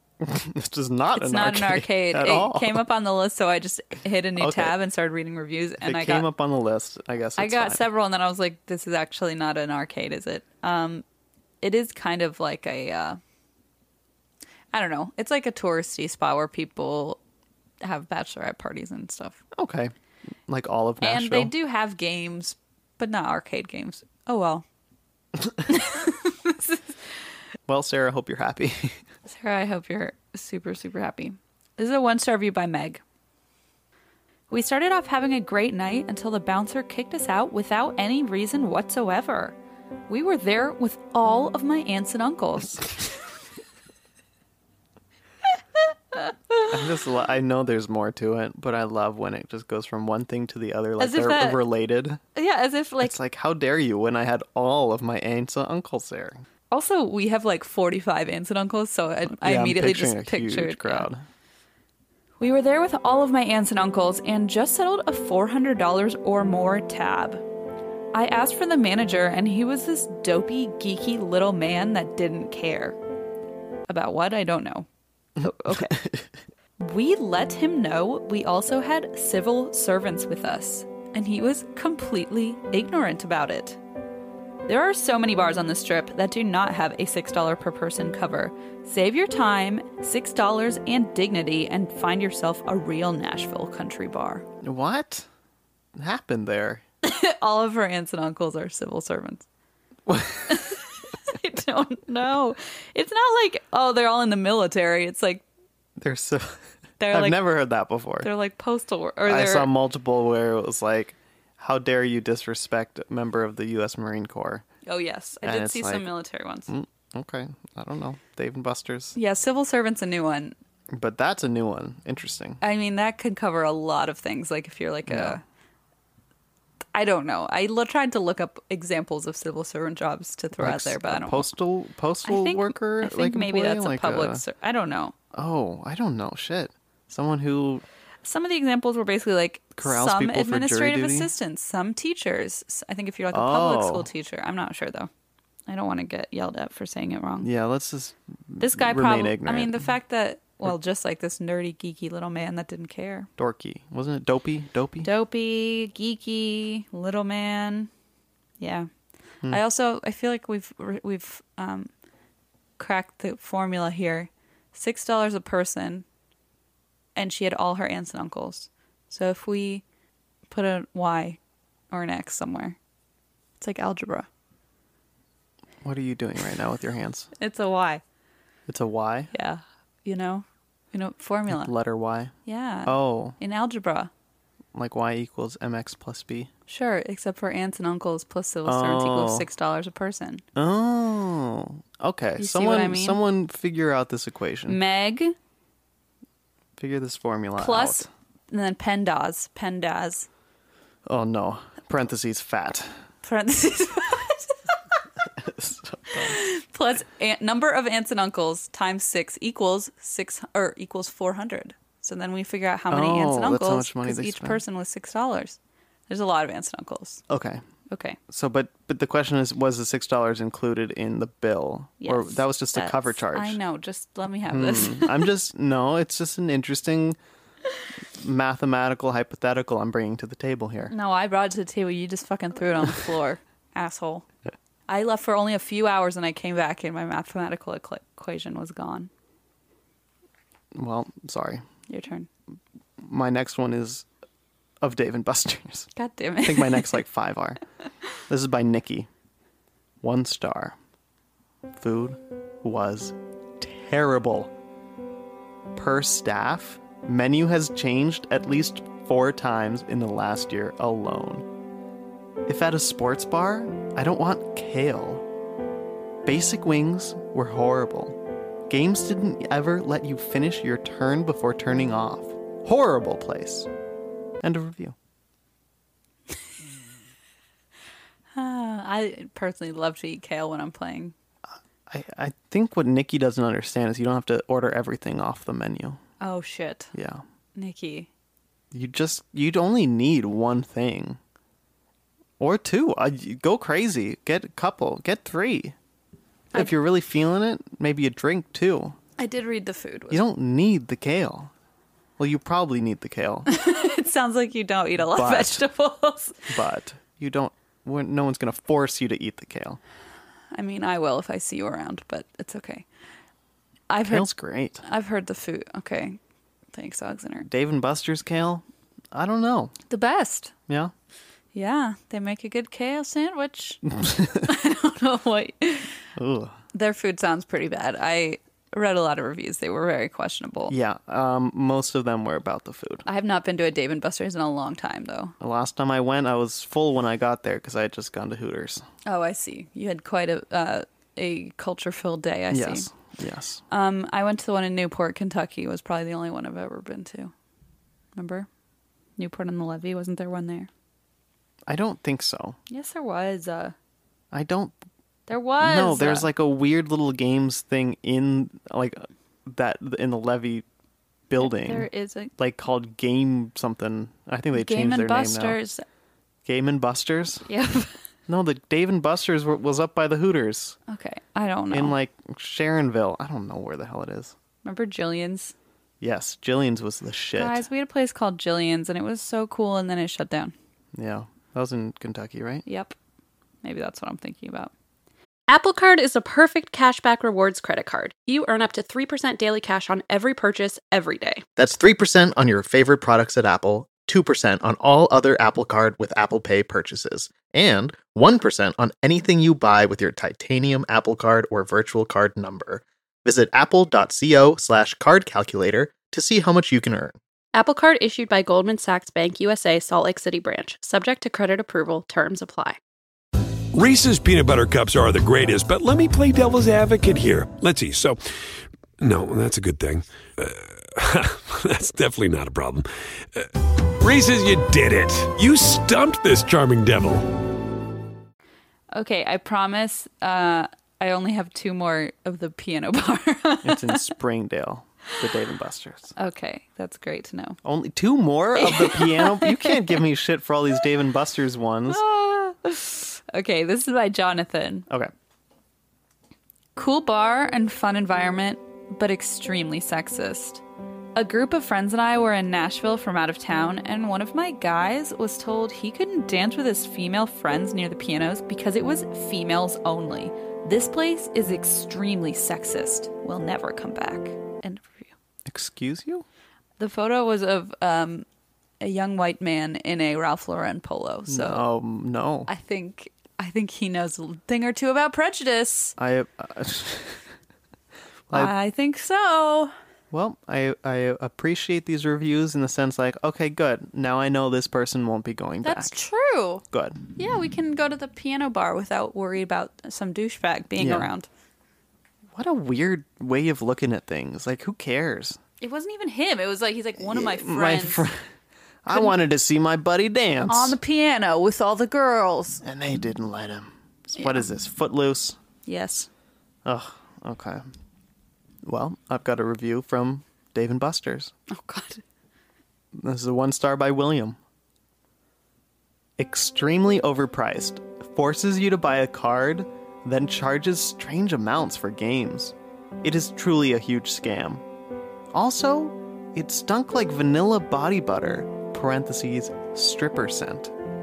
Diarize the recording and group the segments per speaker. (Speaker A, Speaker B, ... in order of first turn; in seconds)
Speaker A: 0.2-2.8, 4.4-4.8, 5.8-7.8, 19.5-19.9, 20.5-21.5, 27.7-29.0, 46.7-52.2, 53.0-56.4, 59.3-61.2, 75.4-76.3, 94.6-95.3, 96.0-96.8, 100.1-100.6, 106.0-106.6, 107.1-108.3, 109.2-114.6, 115.4-116.1, 116.7-119.2, 120.9-122.6, 125.1-125.4, 130.6-134.4, 135.3-137.8, 139.8-141.3, 143.3-144.1, 147.4-149.9, 153.4-155.1, 175.8-177.3, 178.7-179.3, 181.5-182.3, 182.8-183.4, 184.7-186.5, 188.6-189.5, 190.6-194.8, 196.8-198.1, 201.1-202.9, 205.3-206.4, 212.9-214.6, 217.3-217.6, 218.3-223.6, 224.5-227.2, 228.1-230.9, 240.7-241.6, 243.0-244.1, 244.8-245.9, 246.4-247.6, 248.3-249.1, 250.0-250.8, 251.7-254.5, 255.7-261.4, 262.4-265.2, 266.2-273.7, 274.4-274.9, 281.9-286.0, 286.9-287.2, 288.7-291.2, 292.4-295.8, 296.5-299.0, 300.1-301.5, 302.2-303.5, 305.0-305.6, 306.5-309.8, 314.1-314.8, 317.4-319.7, 324.0-324.4, 326.2-326.6, 330.7-333.0, 335.4-338.9, 342.5-343.6, 351.7-352.6, 354.3-354.8, 355.6-360.6, 361.3-365.6, 366.4-367.5, 368.3-370.8, 371.7-374.3, 376.0-377.6, 380.9-382.6, 433.6-436.1, 437.6-442.0, 465.4-466.2, 471.3-472.5, 476.0-477.3, 480.1-486.0, 486.7-487.0, 490.8-491.1, 492.3-495.4, 497.0-498.2, 498.8-500.8, 502.6-505.4, 506.6-507.6, 508.6-511.3, 513.0-514.4, 516.2-524.6, 525.3-530.7
Speaker B: 1.1-6.3, 7.4-11.0, 11.6-13.2, 14.7-17.2, 17.8-19.4, 21.0-24.6, 25.6-26.8, 29.2-33.0, 34.5-39.5, 40.1-43.1, 46.1-46.7, 51.0-51.6, 52.3-53.1, 56.7-61.1, 62.4-67.4, 68.1-73.0, 73.9-74.9, 75.4-76.0, 76.8-83.8, 84.7-94.5, 97.0-99.5, 100.5-105.4, 107.0-107.4, 108.2-109.7, 114.8-116.7, 119.1-120.5, 122.6-125.4, 126.9-131.5, 132.2-135.1, 138.2-145.1, 145.7-147.5, 148.6-153.3, 155.0-157.9, 158.6-158.9, 159.5-161.9, 162.8-166.0, 167.2-169.8, 170.5-171.4, 171.9-172.8, 173.6-174.3, 177.4-178.0, 179.3-181.7, 182.4-184.1, 186.7-190.4, 192.4-193.2, 194.7-195.3, 197.6-200.3, 203.2-205.0, 206.1-215.6, 216.1-217.2, 217.9-218.2, 222.0-225.3, 230.9-234.2, 234.9-239.1, 241.9-242.3, 245.9-247.0, 278.3-281.1, 286.2-286.9, 287.5-288.1, 299.2-300.2, 303.5-306.5, 310.5-312.9, 313.9-314.3, 314.8-316.2, 316.7-317.5, 319.9-320.5, 321.5-326.0, 326.7-330.7, 333.1-335.3, 339.1-342.9, 343.7-347.3, 348.1-348.5, 349.2-350.7, 352.7-353.7, 355.3-356.3, 361.4-362.3, 364.5-365.8, 367.4-368.0, 370.9-371.9, 374.6-375.5, 377.4-380.5, 382.6-382.9, 383.6-384.7, 428.9-434.1, 436.1-437.6, 438.6-440.0, 441.9-444.9, 446.8-450.6, 451.1-465.1, 466.8-468.2, 468.8-471.6, 472.5-475.9, 478.3-479.7, 485.6-486.6, 487.1-491.3, 495.6-498.1, 500.5-502.6, 504.1-504.4, 505.6-506.1, 511.5-512.0
Speaker C: 385.5-391.4, 407.5-412.8
Speaker D: 391.6-407.1
Speaker E: 413.7-418.3, 419.0-427.4